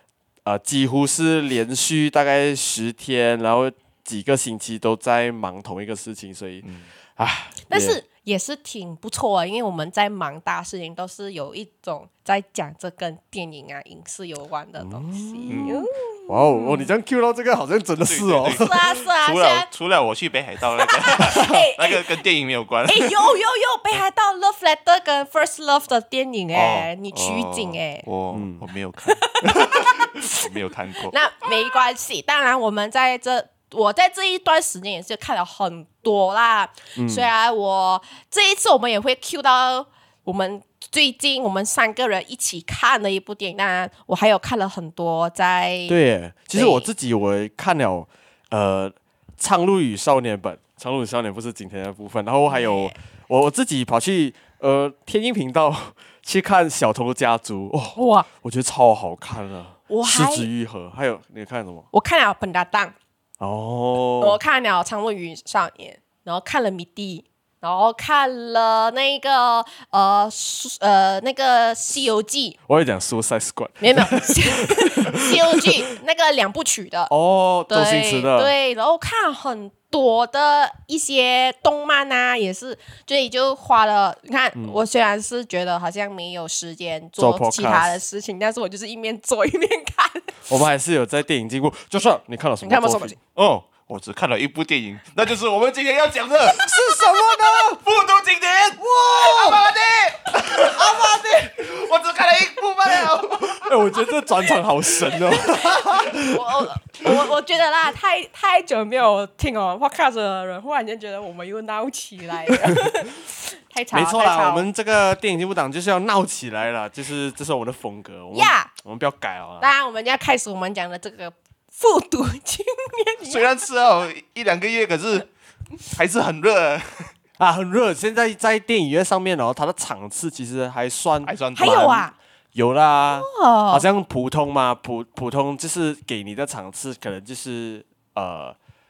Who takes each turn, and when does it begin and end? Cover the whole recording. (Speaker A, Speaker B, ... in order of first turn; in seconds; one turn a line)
Speaker A: 0.5-6.7
Speaker B: 6.6-6.9
Speaker A: 7.2-8.0
Speaker C: 7.7-16.9
Speaker A: 14.8-18.9
Speaker B: 15.5-15.9
Speaker B: 18.0-23.3
Speaker C: 18.5-19.7
Speaker C: 20.8-22.2
Speaker C: 22.9-28.1
Speaker B: 26.5-31.2
Speaker A: 28.3-28.6
Speaker C: 29.1-30.5
Speaker C: 31.1-46.0
Speaker A: 37.0-37.3
Speaker A: 45.9-61.9
Speaker C: 46.5-46.9
Speaker C: 52.5-52.9
Speaker C: 58.0-58.3
Speaker C: 59.9-60.5
Speaker C: 61.9-62.9
Speaker A: 63.4-64.4
Speaker C: 64.2-72.6
Speaker A: 72.7-75.9
Speaker C: 73.8-77.1
Speaker A: 77.1-78.5
Speaker C: 77.7-90.5
Speaker A: 84.6-84.8
Speaker A: 87.2-88.0
Speaker A: 90.5-93.2
Speaker C: 92.6-93.2
Speaker B: 93.4-96.8
Speaker A: 96.5-97.8
Speaker B: 97.6-103.8
Speaker A: 98.9-99.6
Speaker A: 100.5-101.4
Speaker A: 103.5-106.4
Speaker C: 106.0-114.7
Speaker A: 113.9-119.7
Speaker C: 118.3-118.7
Speaker C: 119.6-123.5
Speaker B: 123.2-125.3
Speaker B: 125.9-127.1
Speaker A: 127.4-138.6
Speaker B: 131.2-132.1
Speaker C: 131.6-132.1
Speaker C: 133.1-133.9